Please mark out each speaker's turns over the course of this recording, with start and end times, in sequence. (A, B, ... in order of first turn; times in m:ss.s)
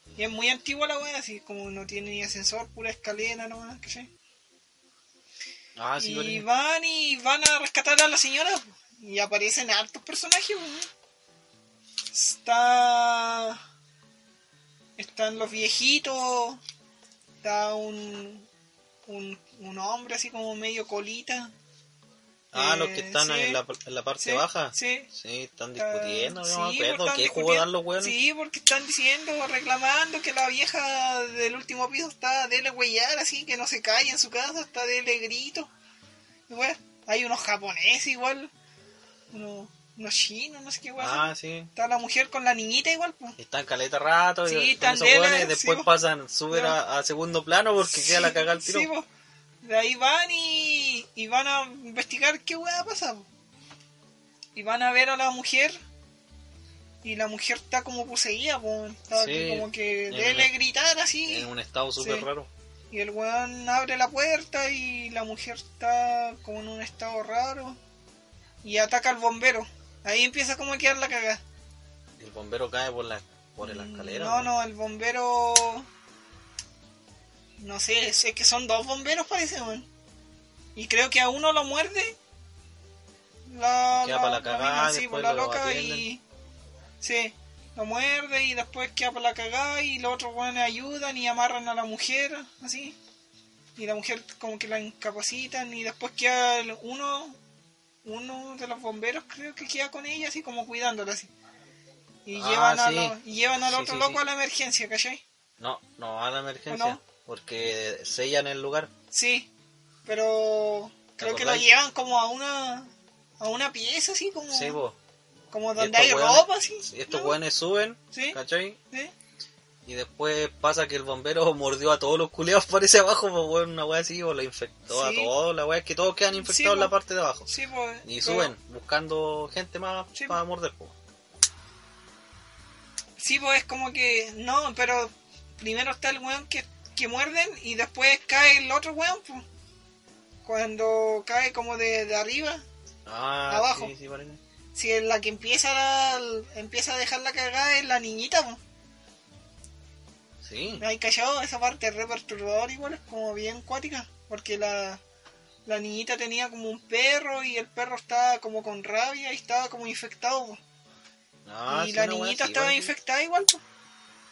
0:00.2-0:04.1 A
0:05.8-0:06.4 B
0:06.0-0:10.9 A
0:12.1-0:13.6 A
0:15.0-0:16.6 A
0:17.4-0:18.5 A
0:19.1-0:21.5 A
0:22.5-0:28.2 B
0:22.5-0:23.6 A
0:24.2-0:25.1 A
0:25.8-0:35.7 A
0:36.5-0:38.5 A
0:39.3-0:43.4 A
0:41.0-0:41.7 B
0:43.4-0:48.9 B
0:44.4-0:45.9 A
0:46.5-0:46.8 A
0:47.9-0:49.0 A
0:49.6-0:53.3 A
0:54.5-0:55.8 A
0:57.0-1:02.3 A
0:59.1-1:00.5 B
1:01.3-1:02.5 B
1:02.9-1:07.8 A
1:08.6-1:11.4 A
1:12.2-1:14.5 B
1:13.6-1:15.9 A
1:17.6-1:19.9 A
1:20.8-1:22.2 A
1:23.4-1:26.2 A
1:23.9-1:26.1 B
1:27.0-1:33.0 A
1:33.8-1:37.4 A
1:38.0-1:41.3 A
1:42.2-1:45.2 A
1:42.3-1:44.2 B
1:45.6-1:48.9 B
1:46.7-1:47.0 A
1:49.1-1:49.5 A
1:50.0-1:54.8 A
1:51.2-1:51.7 B
1:54.5-1:55.0 B
1:55.5-1:57.4 A
1:55.8-1:58.8 B
1:58.1-1:58.4 A
1:59.8-2:07.5 B
2:04.9-2:05.3 A
2:06.3-2:06.9 A
2:07.5-2:08.5 A
2:08.0-2:10.9 B
2:13.2-2:19.4 A
2:20.4-2:22.6 A
2:23.0-2:24.4 B
2:23.5-2:23.9 A
2:24.7-2:28.6 A
2:30.4-2:30.8 B
2:30.8-2:35.0 A
2:35.6-2:40.6 A
2:41.4-2:42.9 B
2:41.7-2:43.6 A